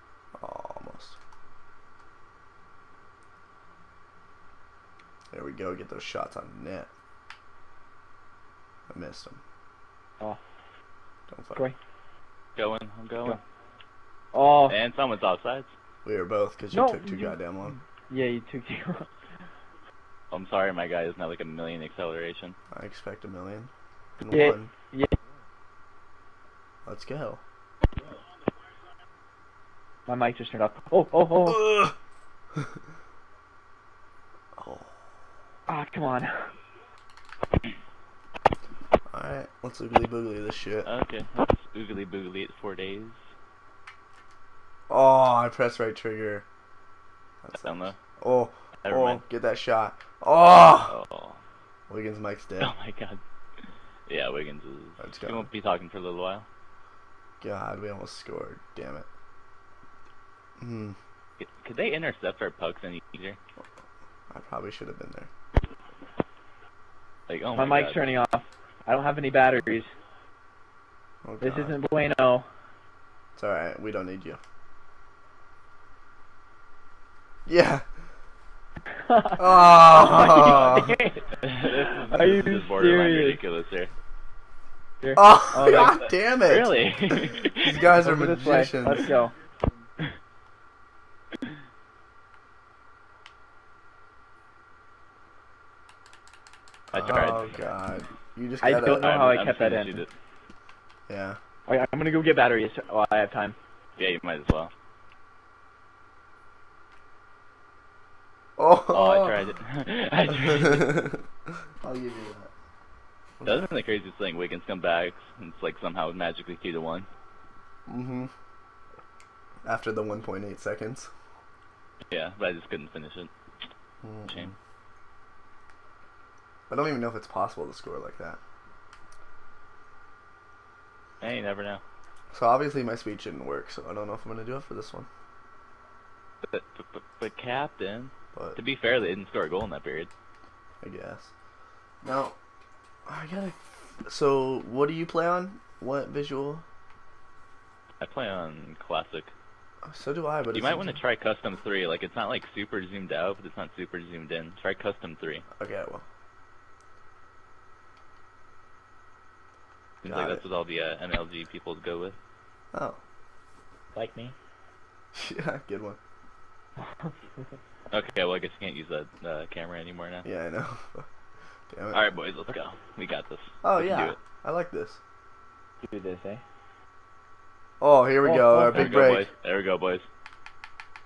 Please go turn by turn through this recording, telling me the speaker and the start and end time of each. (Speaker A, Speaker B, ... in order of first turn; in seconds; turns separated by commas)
Speaker A: 0.4-1.1, Speaker A: 5.3-6.9, Speaker A: 8.9-9.4, Speaker A: 11.3-11.6, Speaker B: 12.6-13.4, Speaker C: 14.3-14.8, Speaker B: 14.6-15.7, Speaker A: 16.0-17.8, Speaker C: 16.7-17.3, Speaker C: 18.1-19.1, Speaker B: 20.3-22.6, Speaker A: 22.7-24.7, Speaker C: 24.3-25.1, Speaker A: 26.9-27.4, Speaker C: 30.1-31.9, Speaker A: 31.5-31.9, Speaker A: 34.6-34.9, Speaker C: 35.7-36.5, Speaker A: 39.1-40.9, Speaker B: 40.8-43.2, Speaker A: 44.9-46.5, Speaker A: 47.4-50.9, Speaker B: 47.5-48.0, Speaker B: 48.8-49.2, Speaker B: 50.9-51.4, Speaker A: 51.9-52.7, Speaker B: 52.6-53.2, Speaker B: 54.1-56.5, Speaker A: 55.0-55.5, Speaker A: 57.4-59.1, Speaker A: 60.6-61.0, Speaker B: 61.4-63.4, Speaker A: 64.3-65.3, Speaker B: 67.3-68.1, Speaker C: 67.6-69.9, Speaker A: 71.2-71.8, Speaker C: 71.4-72.5, Speaker A: 73.4-74.4, Speaker A: 77.5-77.8, Speaker C: 79.0-81.3, Speaker A: 79.4-81.0, Speaker B: 81.4-83.9, Speaker C: 82.1-83.4, Speaker C: 85.0-86.1, Speaker A: 85.1-89.1, Speaker B: 86.4-87.9, Speaker C: 87.8-89.3, Speaker B: 96.9-97.6, Speaker A: 96.9-99.4, Speaker C: 98.6-100.0, Speaker B: 99.0-100.1, Speaker A: 101.1-101.4, Speaker C: 101.7-103.5, Speaker B: 104.0-104.7, Speaker A: 108.6-109.4, Speaker B: 108.9-111.0, Speaker A: 110.3-112.5, Speaker A: 113.4-113.7, Speaker B: 113.4-117.1, Speaker A: 117.9-118.3, Speaker A: 119.6-121.1, Speaker B: 122.1-123.3, Speaker A: 124.0-124.5, Speaker A: 126.7-128.4, Speaker B: 131.2-131.8, Speaker A: 132.3-135.1, Speaker B: 136.5-140.1, Speaker A: 140.8-141.3, Speaker A: 142.0-142.3, Speaker A: 143.1-146.6, Speaker B: 148.0-149.3, Speaker A: 149.8-151.0, Speaker B: 150.5-155.4, Speaker A: 155.6-156.1, Speaker B: 160.0-162.2, Speaker A: 160.0-160.4, Speaker A: 162.7-163.0, Speaker C: 163.9-164.3, Speaker A: 165.1-166.0, Speaker B: 167.9-170.3, Speaker A: 170.2-171.1, Speaker A: 171.7-172.0, Speaker B: 171.9-174.2, Speaker A: 173.6-175.0, Speaker C: 175.8-176.4, Speaker A: 177.8-179.3, Speaker C: 178.2-179.1, Speaker B: 178.7-180.1